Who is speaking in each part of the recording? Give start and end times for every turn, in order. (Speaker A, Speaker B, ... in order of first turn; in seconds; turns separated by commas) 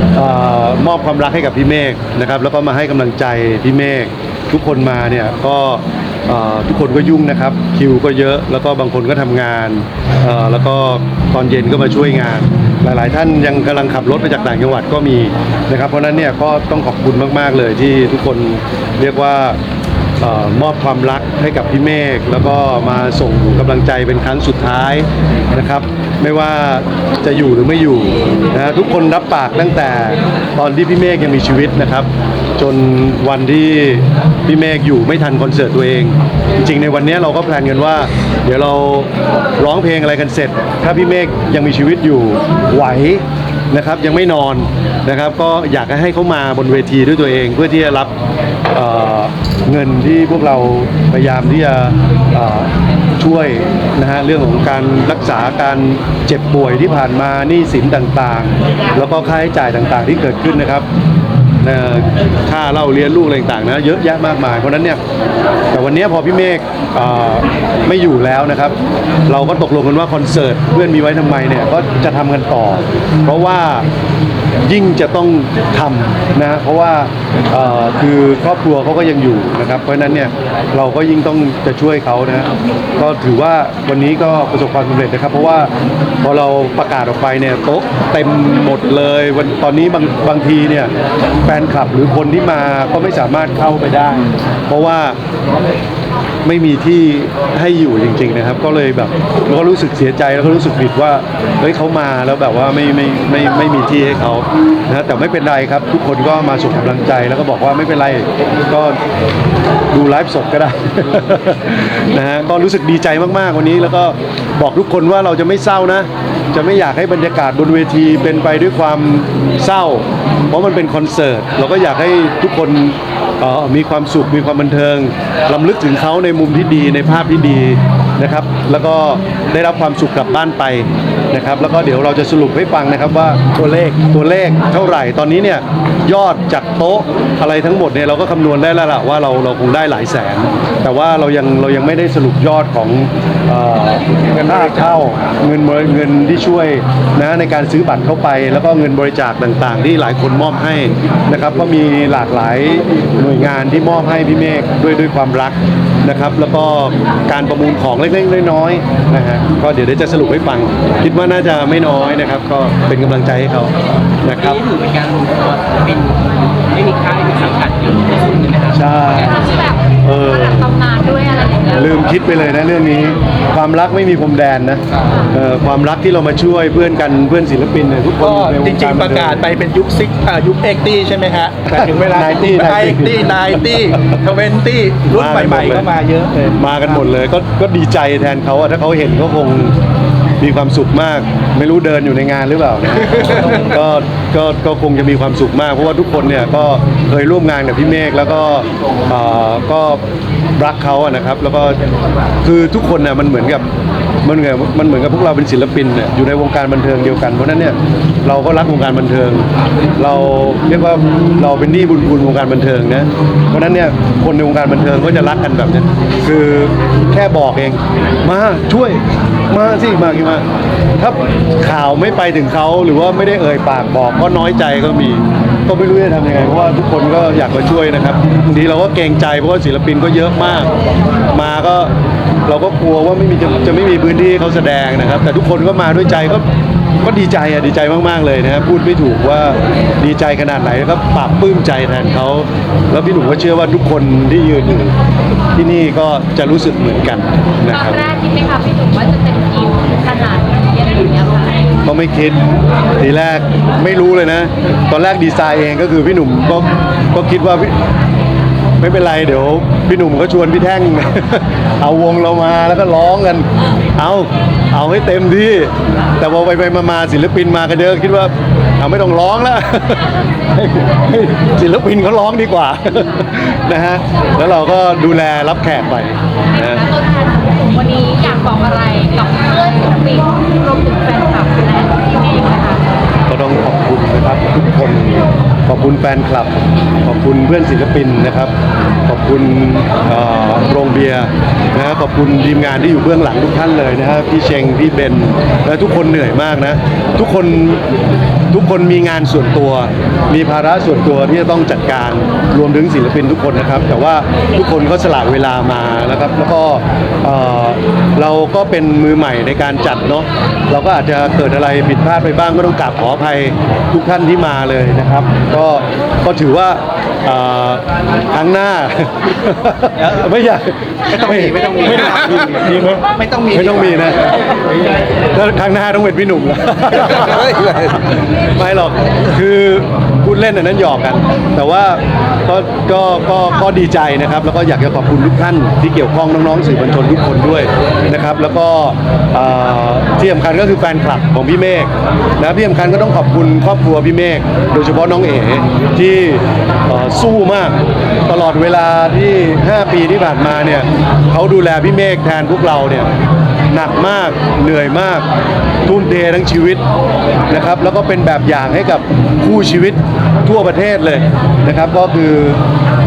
Speaker A: 0.1-19.6, Speaker A: 20.2-48.1, Speaker A: 48.7-60.9, Speaker A: 61.6-65.0, Speaker A: 65.7-68.7, Speaker A: 69.3-73.9, Speaker A: 74.6-85.7, Speaker A: 86.2-90.9, Speaker A: 91.4-95.2, Speaker A: 96.4-109.0, Speaker A: 109.9-164.6, Speaker B: 133.6-133.9, Speaker C: 164.5-168.8, Speaker A: 168.7-169.4, Speaker D: 169.2-172.0, Speaker A: 170.0-170.7, Speaker A: 171.7-179.4, Speaker B: 178.2-186.7, Speaker A: 181.7-183.3, Speaker A: 185.1-185.9, Speaker A: 186.5-189.7, Speaker A: 190.4-200.0, Speaker B: 193.1-193.6, Speaker A: 200.6-201.8, Speaker A: 202.4-203.7, Speaker A: 204.2-209.4, Speaker A: 210.0-220.4, Speaker A: 221.0-230.7, Speaker A: 231.3-231.9, Speaker A: 232.5-236.4, Speaker A: 237.0-244.9, Speaker A: 245.5-248.1, Speaker D: 247.7-251.7, Speaker A: 251.8-257.8, Speaker A: 258.8-276.9, Speaker D: 276.6-282.8, Speaker A: 283.3-288.5, Speaker A: 289.1-297.8, Speaker A: 298.5-322.9, Speaker C: 321.6-322.0, Speaker B: 322.8-323.4, Speaker A: 323.4-324.3, Speaker A: 325.3-353.1, Speaker A: 353.7-355.2, Speaker A: 355.9-356.8, Speaker A: 357.5-362.6